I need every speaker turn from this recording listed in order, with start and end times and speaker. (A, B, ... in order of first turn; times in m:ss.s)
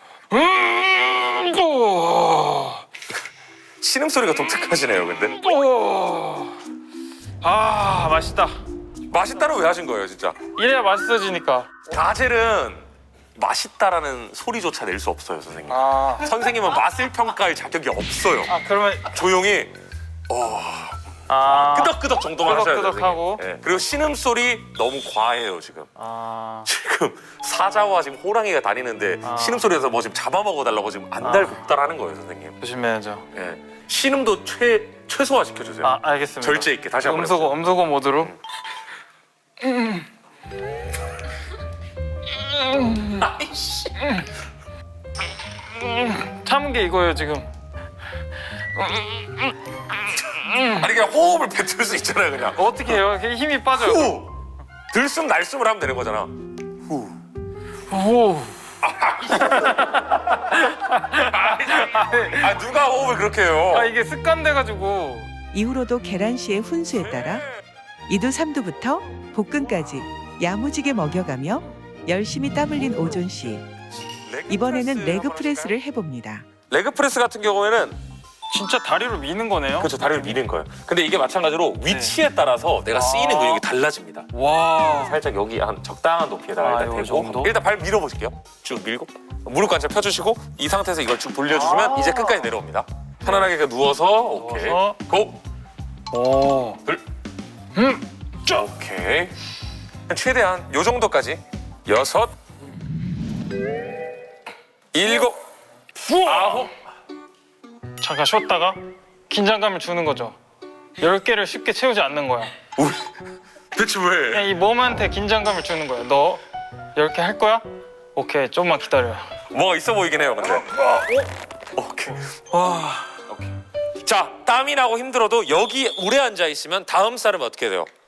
0:00.3-0:02.8 A
0:03.8-0:05.4 B
0:05.4-0:06.6 A
0:07.4-0:08.6 A
0:09.1-0:10.4 B
0:10.6-0:11.8 A
0:11.9-0:12.8 B
0:13.4-0:18.5 B
0:15.7-0:16.3 A
0:18.5-0:19.1 A
0:19.1-0:19.7 B
0:20.3-0:25.9 B
0:21.3-0:23.4 A
0:26.0-0:26.7 A
0:26.7-0:32.6 B
0:29.2-0:29.7 A
0:31.2-0:31.6 A
0:32.6-0:33.3 A
0:33.3-0:37.6 B
0:35.8-0:38.3 A
0:39.6-0:40.1 A
0:42.4-0:43.3 A
0:43.2-0:43.9 B
0:44.0-0:44.3 A
0:45.8-0:47.5 A
0:48.8-0:49.5 A
0:50.4-0:50.8 A
0:50.7-0:52.9 B
0:52.6-0:54.2 A
0:53.8-0:54.4 B
0:54.9-0:57.2 B
0:57.9-0:58.6 A
0:58.8-1:00.1 B
0:59.3-1:02.5 A
1:01.0-1:03.9 B
1:03.7-1:05.3 A
1:05.5-1:07.4 C
1:07.0-1:07.5 B
1:08.1-1:13.7 C
1:14.3-1:15.8 B
1:14.5-1:16.5 C
1:16.7-1:18.0 B
1:18.5-1:20.3 A
1:19.8-1:24.3 B
1:21.9-1:22.2 A
1:22.9-1:23.6 A
1:24.3-1:25.2 A
1:24.8-1:35.4 B
1:26.6-1:27.6 A
1:31.5-1:32.5 A
1:34.4-1:35.0 A
1:36.1-1:36.8 A
1:37.8-1:38.6 A
1:38.5-1:39.3 B
1:40.1-1:42.3 B
1:44.9-1:45.4 B
1:46.0-1:46.7 A
1:46.2-1:46.7 B
1:48.0-1:50.4 A
1:51.0-1:52.5 A
1:52.8-1:53.1 B
1:53.7-1:54.5 B
1:54.3-1:56.4 A
1:57.0-1:59.3 A
1:59.5-2:00.7 B
2:00.5-2:01.3 A
2:01.8-2:02.2 B
2:02.5-2:03.2 A
2:04.0-2:07.9 B